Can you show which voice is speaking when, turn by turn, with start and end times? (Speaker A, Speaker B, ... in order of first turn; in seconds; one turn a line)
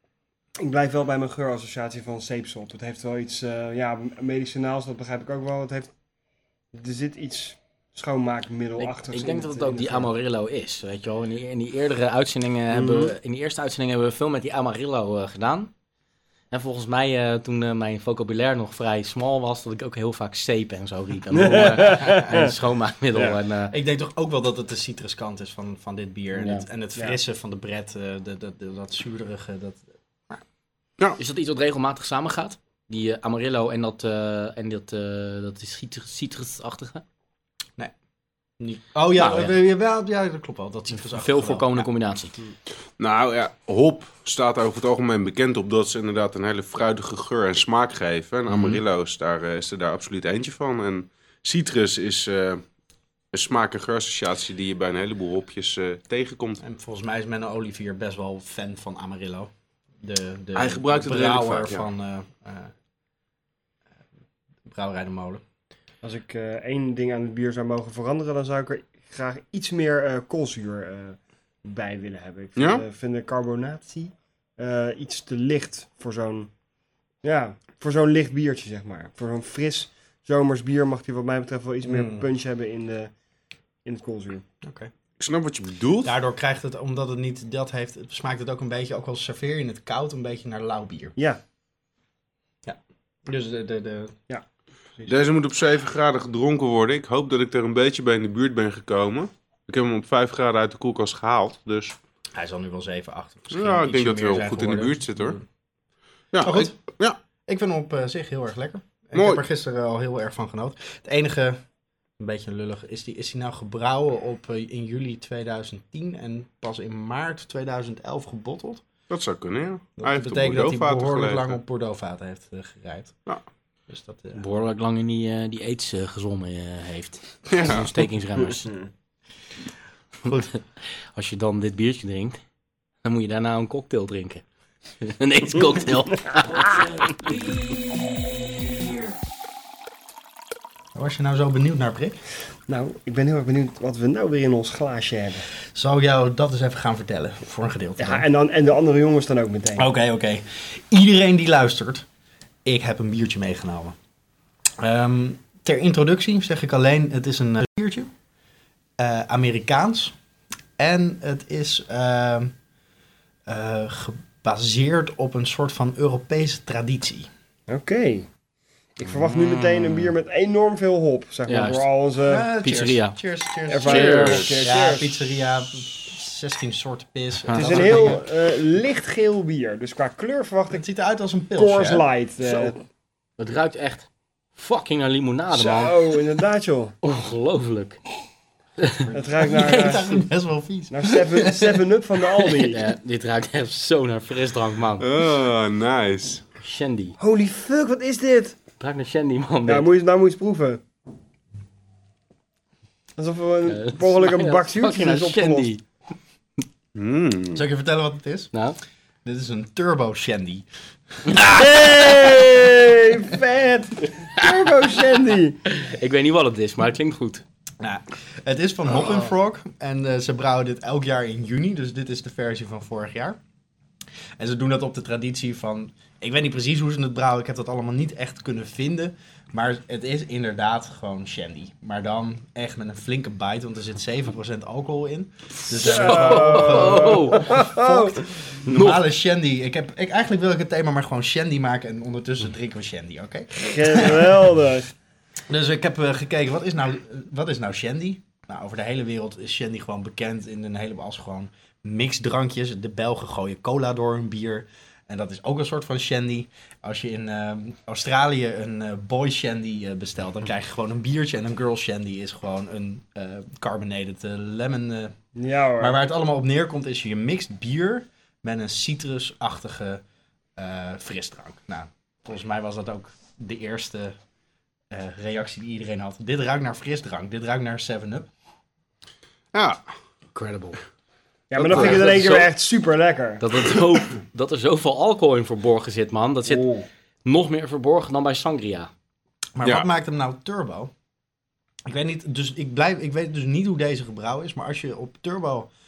Speaker A: 0.6-5.9
Speaker A: 6.7-10.1
Speaker B: 8.8-15.7
Speaker A: 12.7-13.1
Speaker B: 16.5-23.7
Speaker A: 21.3-22.5
Speaker C: 23.7-30.4
Speaker B: 26.3-26.6
Speaker B: 31.2-37.0
Speaker C: 38.6-41.9
Speaker B: 41.1-42.3
Speaker D: 43.0-52.6
Speaker B: 48.5-48.8
Speaker D: 53.3-56.6
Speaker C: 56.6-62.7
Speaker D: 60.5-61.9
Speaker C: 64.7-65.4
Speaker A: 66.0-76.5
Speaker D: 72.5-72.8
Speaker A: 77.2-83.1
Speaker C: 81.8-82.2
Speaker A: 83.8-84.4
Speaker C: 84.6-84.9
Speaker D: 85.2-86.1
Speaker C: 86.0-91.1
Speaker C: 92.6-94.2
Speaker D: 95.1-102.0
Speaker C: 102.3-105.4
Speaker D: 103.5-105.4
Speaker D: 106.3-107.2
Speaker C: 106.4-106.8
Speaker C: 107.5-111.6
Speaker D: 109.1-109.4
Speaker C: 112.2-118.8
Speaker D: 119.1-121.6
Speaker C: 120.0-123.2
Speaker C: 123.9-124.4
Speaker B: 124.3-128.8
Speaker D: 127.5-127.9
Speaker B: 130.3-132.4
Speaker B: 133.0-134.4
Speaker B: 135.0-139.1
Speaker C: 140.9-142.2
Speaker A: 142.7-145.5
Speaker C: 145.7-148.2
Speaker A: 148.0-149.9
Speaker C: 149.8-152.1
Speaker C: 152.6-153.9
Speaker C: 154.8-158.1
Speaker C: 159.0-160.1
Speaker C: 160.8-162.5
Speaker C: 163.5-167.3
Speaker A: 167.7-168.3
Speaker A: 169.0-172.5
Speaker B: 169.1-170.1
Speaker B: 171.5-171.8
Speaker C: 172.2-178.2
Speaker B: 172.6-173.2
Speaker A: 173.7-175.2
Speaker B: 173.8-174.4
Speaker B: 177.4-178.2
Speaker A: 177.5-180.8
Speaker C: 180.7-182.7
Speaker A: 181.5-182.8
Speaker B: 183.4-186.1
Speaker A: 185.5-186.9
Speaker B: 187.0-188.0
Speaker B: 188.8-189.0
Speaker C: 189.1-191.9
Speaker A: 189.1-190.2
Speaker A: 190.9-192.8
Speaker B: 192.6-195.1
Speaker D: 195.0-196.4
Speaker B: 196.6-197.2
Speaker A: 197.2-198.6
Speaker B: 198.8-199.9
Speaker A: 199.7-200.8
Speaker A: 203.2-205.7
Speaker B: 203.7-205.8
Speaker D: 206.9-207.6
Speaker C: 207.5-208.5
Speaker B: 208.5-208.8
Speaker C: 209.2-210.7
Speaker C: 211.3-211.7
Speaker A: 211.4-215.6
Speaker B: 215.6-217.4
Speaker C: 217.8-223.4
Speaker C: 224.4-244.5
Speaker B: 235.7-237.7
Speaker A: 235.8-238.2
Speaker B: 238.7-239.0
Speaker A: 243.6-244.9
Speaker C: 245.5-265.1
Speaker A: 265.3-266.0
Speaker C: 265.8-270.0
Speaker C: 270.6-274.1
Speaker C: 274.9-278.3
Speaker D: 279.5-279.8
Speaker B: 280.3-280.8
Speaker A: 281.5-283.4
Speaker D: 281.6-282.2
Speaker B: 281.7-282.5
Speaker B: 283.4-286.7
Speaker B: 287.2-288.9
Speaker C: 289.6-290.9
Speaker C: 291.9-295.7